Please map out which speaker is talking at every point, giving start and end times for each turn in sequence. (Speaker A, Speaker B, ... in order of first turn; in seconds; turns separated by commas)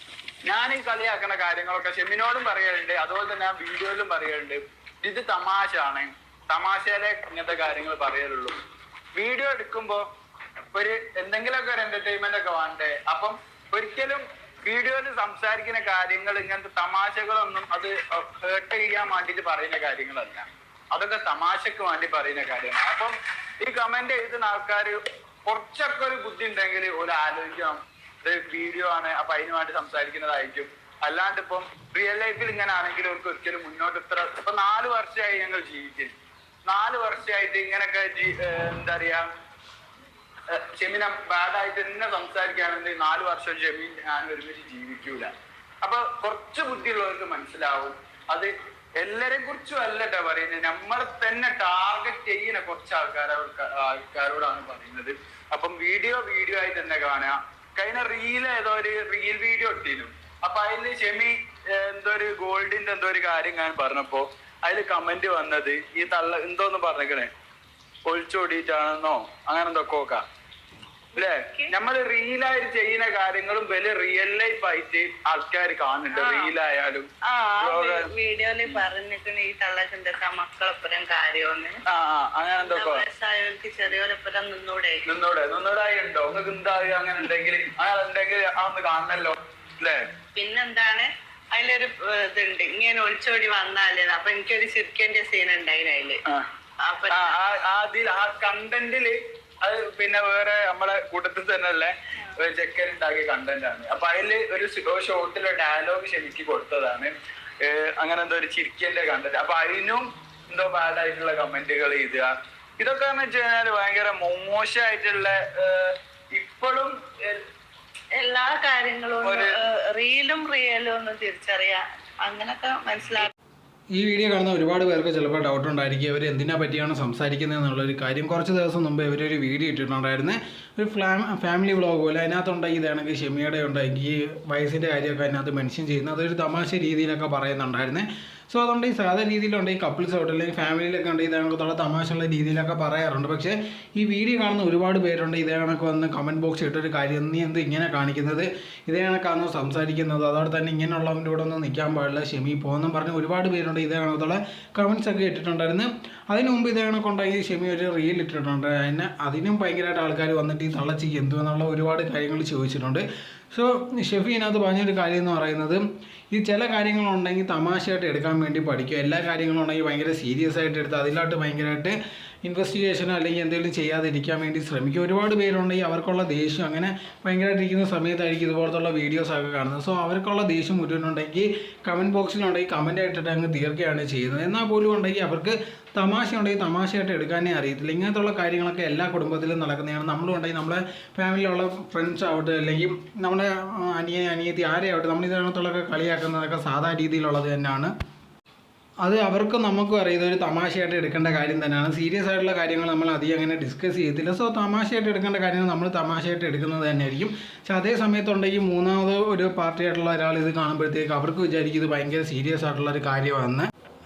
Speaker A: 0.5-8.6, Speaker A: 9.1-10.1, Speaker A: 10.7-36.1, Speaker A: 36.7-39.2, Speaker A: 40.5-45.3, Speaker A: 45.8-67.3, Speaker A: 68.0-70.2, Speaker A: 71.2-77.1, Speaker B: 71.2-71.7, Speaker B: 76.1-76.5, Speaker B: 77.2-81.8, Speaker A: 77.6-78.1, Speaker A: 81.9-83.0, Speaker B: 82.6-85.0, Speaker A: 85.0-90.0, Speaker B: 90.4-96.2, Speaker B: 96.8-97.4, Speaker A: 97.1-117.4, Speaker B: 118.1-123.3, Speaker A: 119.2-119.5, Speaker C: 123.9-197.9, Speaker C: 199.0-213.7